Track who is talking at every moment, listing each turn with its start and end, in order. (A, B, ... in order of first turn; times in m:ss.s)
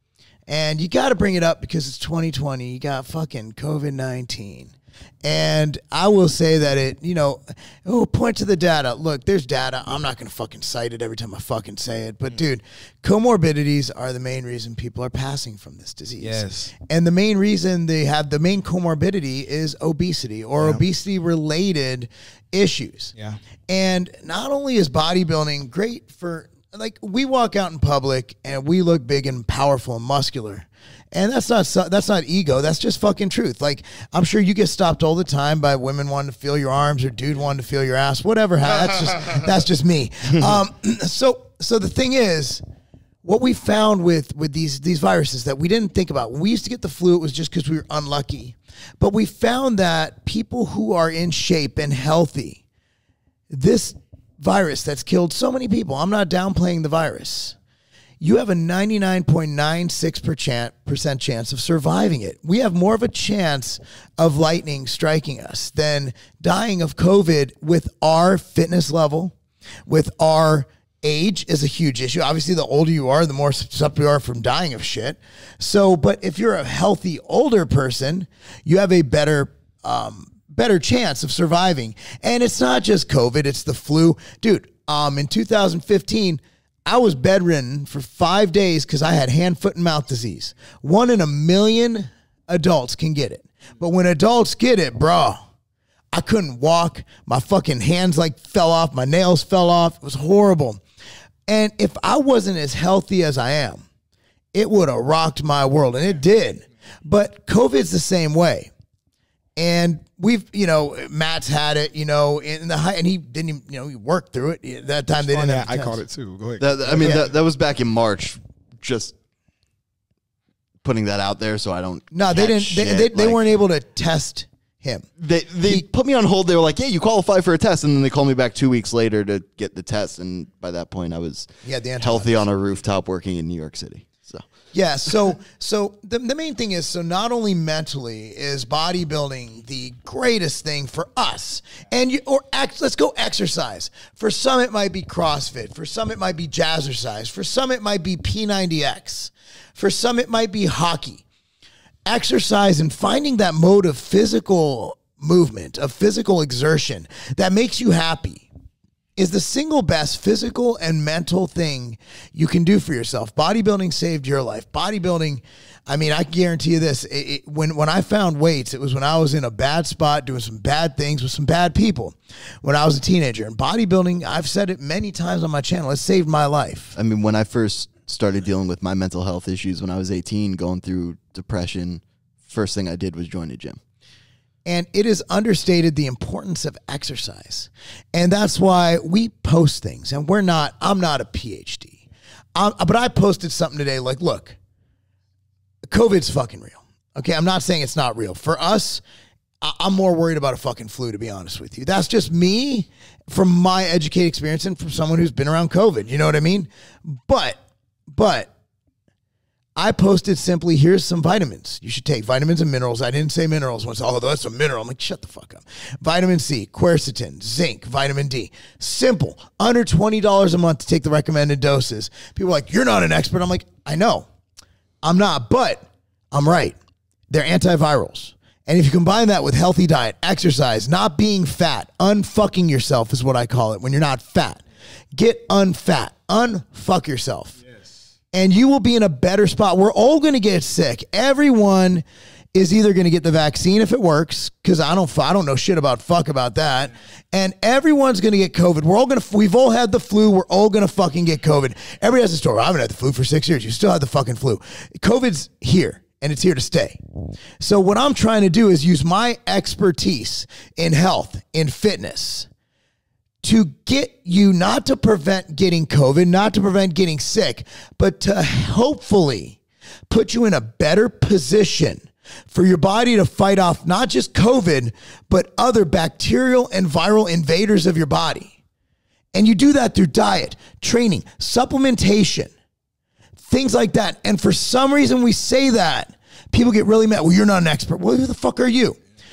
0:00.5-0:23.1 A
0:16.2-0:16.7 B
0:23.7-0:42.6 A
0:43.2-0:52.6 A
0:53.5-0:57.6 A
0:58.2-1:09.3 A
1:09.9-1:35.4 A
1:36.1-1:40.8 A
1:41.5-1:43.8 A
1:44.5-1:48.7 A
1:49.6-1:56.0 A
1:55.2-1:57.2 B
1:56.6-1:59.1 C
1:57.0-1:57.2 A
2:00.8-2:03.4 C
2:02.1-2:05.0 A
2:05.2-2:11.5 C
2:11.6-2:12.4 A
2:12.0-2:14.4 C
2:14.7-2:31.2 A
2:32.0-2:38.5 A
2:39.2-2:56.9 A
2:56.9-3:03.8 C
3:04.6-3:12.0 A
3:12.5-3:14.6 A
3:15.8-3:19.0 A
3:19.6-3:27.6 A
3:28.1-3:28.5 A
3:29.8-3:44.2 A
3:45.0-3:46.8 A
3:47.3-3:54.6 A
3:55.1-3:57.6 A
3:58.3-4:17.0 A
4:17.6-4:22.5 A
4:23.4-4:29.6 A
4:30.1-4:38.5 A
4:39.3-4:42.5 A
4:43.5-4:49.0 A